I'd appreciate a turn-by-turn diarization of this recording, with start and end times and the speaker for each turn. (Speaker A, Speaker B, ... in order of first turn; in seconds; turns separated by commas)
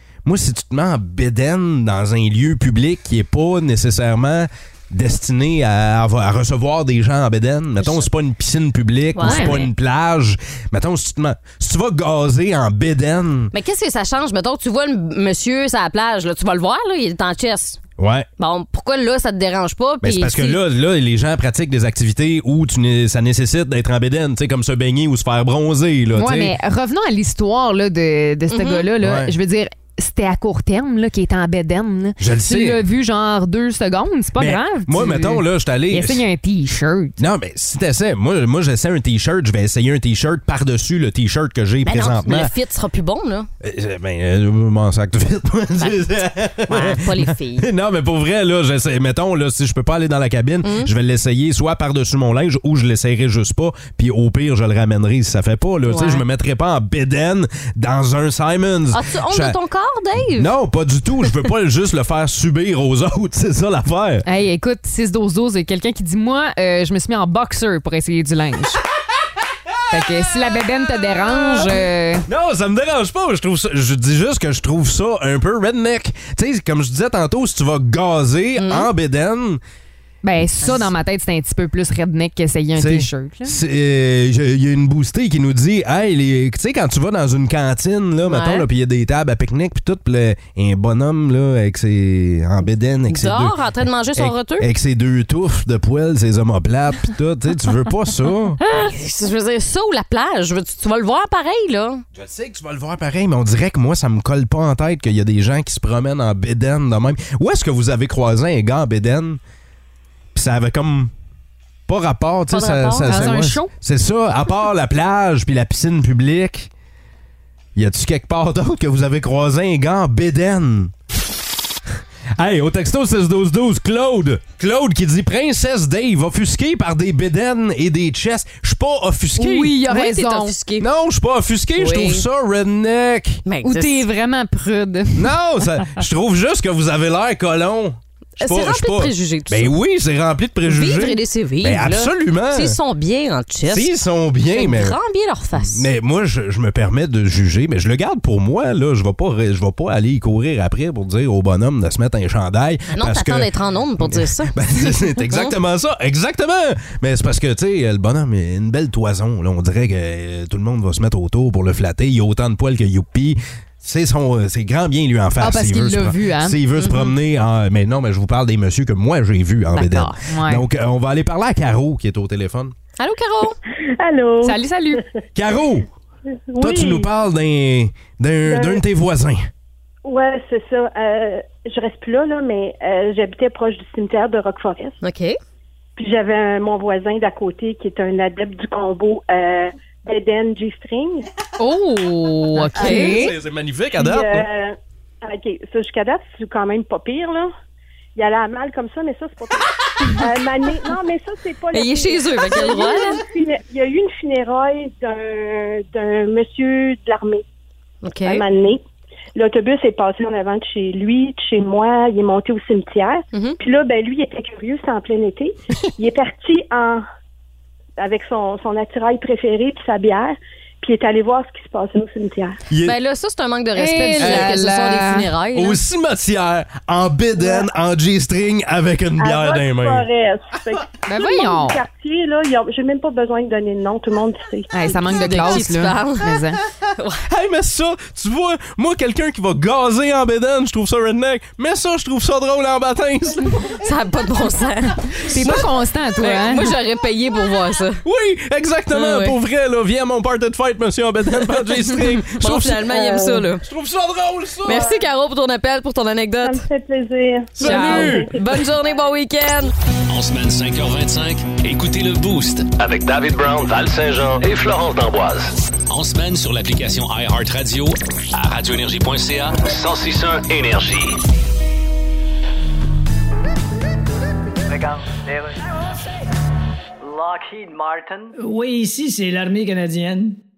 Speaker A: 0.2-13.5, Speaker B: 7.8-8.1, Speaker B: 9.1-9.7, Speaker C: 9.2-9.6, Speaker B: 13.5-17.8, Speaker A: 18.0-18.3, Speaker B: 18.4-20.6, Speaker A: 20.0-26.5, Speaker C: 26.1-37.2, Speaker B: 28.5-28.9, Speaker A: 29.0-29.3, Speaker A: 32.2-32.8, Speaker A: 34.4-36.2, Speaker A: 37.2-42.5, Speaker B: 41.8-43.5, Speaker A: 43.6-59.6, Speaker B: 45.8-46.1, Speaker B: 46.6-47.7, Speaker B: 50.6-50.9, Speaker B: 55.9-56.2, Speaker B: 58.9-60.5, Speaker A: 60.3-64.2, Speaker C: 64.2-68.8, Speaker A: 69.7-70.2, Speaker C: 69.9-72.3, Speaker A: 71.1-71.8, Speaker A: 72.3-79.6, Speaker B: 78.6-78.9, Speaker C: 80.2-83.6, Speaker A: 82.8-98.6, Speaker B: 88.2-88.7, Speaker B: 93.1-94.7, Speaker B: 98.7-102.0, Speaker A: 102.1-109.4, Speaker A: 110.3-111.1, Speaker A: 111.9-116.7, Speaker B: 112.5-113.3, Speaker C: 113.0-113.7, Speaker A: 117.8-120.9, Speaker A: 122.4-129.8, Speaker C: 129.4-130.6, Speaker B: 129.9-130.9, Speaker A: 130.8-133.4, Speaker B: 131.8-132.2, Speaker B: 133.4-134.1, Speaker C: 133.6-135.3, Speaker A: 135.2-142.8, Speaker B: 138.4-139.7, Speaker B: 140.7-143.9, Speaker A: 143.7-145.0, Speaker B: 144.5-145.9, Speaker A: 145.6-172.7, Speaker B: 152.9-154.5, Speaker B: 155.3-155.6, Speaker C: 165.4-166.6, Speaker B: 166.8-167.2, Speaker B: 169.7-170.2, Speaker C: 170.3-170.6, Speaker B: 173.0-173.6, Speaker D: 174.0-174.6, Speaker C: 174.4-175.0, Speaker A: 175.3-175.9, Speaker D: 176.5-177.1, Speaker A: 176.6-179.5, Speaker D: 178.5-178.8, Speaker D: 180.1-185.0, Speaker B: 185.0-185.4, Speaker D: 186.0-191.3, Speaker C: 191.6-193.3, Speaker B: 192.5-193.2, Speaker D: 192.8-193.3, Speaker A: 192.8-194.5, Speaker D: 193.9-197.5, Speaker D: 198.2-207.4, Speaker B: 201.7-203.2, Speaker B: 208.0-208.4, Speaker D: 208.2-208.8, Speaker D: 209.3-217.1, Speaker B: 213.3-213.6, Speaker D: 218.0-222.6, Speaker A: 222.7-222.9, Speaker B: 222.8-225.8, Speaker C: 223.8-225.3, Speaker A: 224.2-224.6, Speaker A: 225.5-230.1, Speaker D: 229.2-234.7, Speaker C: 231.1-231.8, Speaker C: 234.7-236.6, Speaker B: 235.1-236.4, Speaker B: 237.0-237.2, Speaker A: 237.3-243.8, Speaker B: 243.8-245.7, Speaker C: 245.2-246.8, Speaker B: 246.2-248.0, Speaker A: 248.0-255.0, Speaker B: 248.9-249.4, Speaker B: 252.4-253.6, Speaker B: 254.6-256.6, Speaker D: 256.4-258.6, Speaker A: 257.6-258.3, Speaker B: 257.6-259.7, Speaker C: 257.6-258.1, Speaker E: 260.1-262.7, Speaker F: 262.8-265.5, Speaker E: 265.9-269.6, Speaker F: 269.6-271.2, Speaker G: 274.7-275.8, Speaker G: 277.0-278.4, Speaker H: 278.4-280.4